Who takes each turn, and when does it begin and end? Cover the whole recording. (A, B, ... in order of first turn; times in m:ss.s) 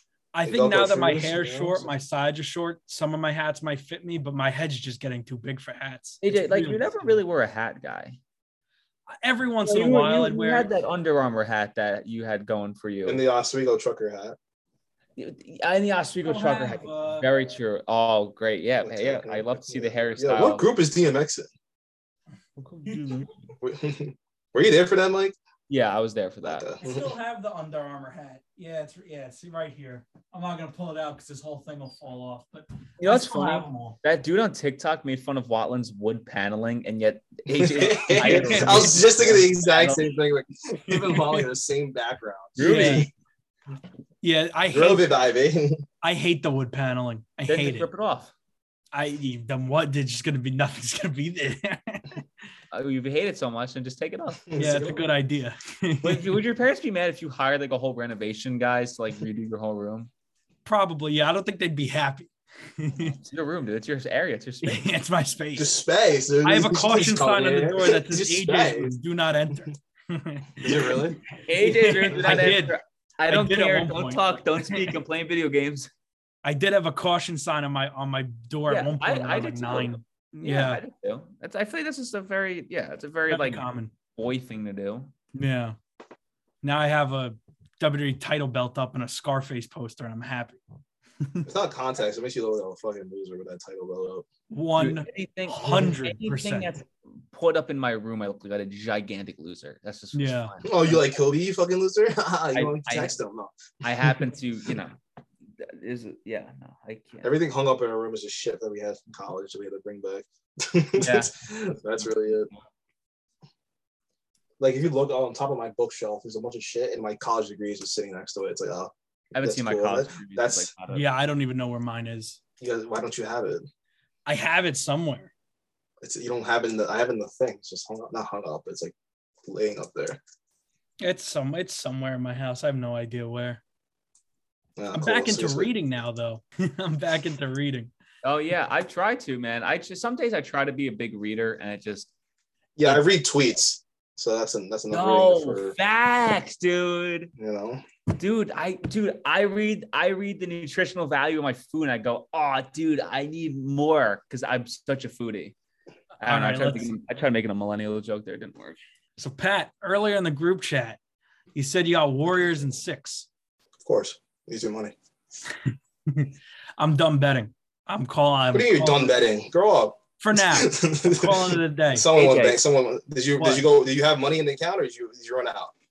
0:00.3-0:07.1 A
0:00.4-0:01.9 B
0:06.2-0:08.2 C
0:09.1-0:10.7 A
0:09.6-0:13.2 C
0:13.0-0:14.4 B
0:15.2-0:20.6 C
0:16.2-0:17.3 A
0:18.8-0:21.5 B
0:22.6-0:23.3 C
0:22.8-0:23.2 A
0:23.6-0:25.4 B
0:25.7-0:26.7 C
0:26.4-0:27.1 B
0:26.8-0:34.0 A
0:33.0-0:40.0 C
0:37.5-0:43.1 B
0:37.9-0:39.0 A
0:40.9-0:41.4 A
0:42.6-0:43.1 C
0:42.6-0:43.1 A
0:44.2-0:45.1 A
0:44.7-0:45.8 B
0:46.0-0:47.9 A
0:47.5-0:48.3 C
0:48.9-0:52.2 A
0:52.7-0:54.8 C
0:54.5-0:55.0 B
0:54.6-0:56.3 A
0:56.0-1:00.1 C
1:00.6-1:03.2 A
1:03.0-1:04.9 C
1:04.6-1:05.7 A
1:05.6-1:09.0 B
1:06.4-1:12.8 A
1:10.6-1:11.2 B
1:11.4-1:15.9 C
1:12.2-1:12.5 B
1:13.3-1:14.9 A
1:16.4-1:20.8 A
1:18.7-1:25.1 C
1:23.3-1:23.9 A
1:25.3-1:25.8 A
1:26.6-1:30.6 A
1:31.2-1:31.5 A
1:31.4-1:34.3 B
1:34.5-1:36.7 A
1:34.8-1:41.0 C
1:40.1-1:40.5 A
1:40.6-1:44.2 B
1:42.5-1:43.1 C
1:43.8-1:45.0 C
1:45.6-1:47.3 C
1:47.2-1:52.5 B
1:51.0-1:51.3 C
1:54.6-2:00.7 B
1:59.3-2:01.1 C
2:00.9-2:02.4 A
2:02.6-2:03.6 B
2:04.3-2:05.3 A
2:06.0-2:10.2 B
2:11.0-2:13.6 A
2:14.8-2:15.7 B
2:14.9-2:17.9 A
2:18.2-2:22.1 C
2:22.8-2:25.7 B
2:24.9-2:27.3 C
2:27.4-2:27.8 B
2:28.1-2:35.5 C
2:36.2-2:38.8 C
2:36.2-2:36.9 A
2:39.2-2:41.0 A
2:41.5-2:43.3 A
2:43.8-2:44.9 B
2:46.1-2:49.1 A
2:48.5-2:55.7 B
2:50.2-2:52.1 A
2:52.1-2:52.6 C
2:53.4-2:53.6 A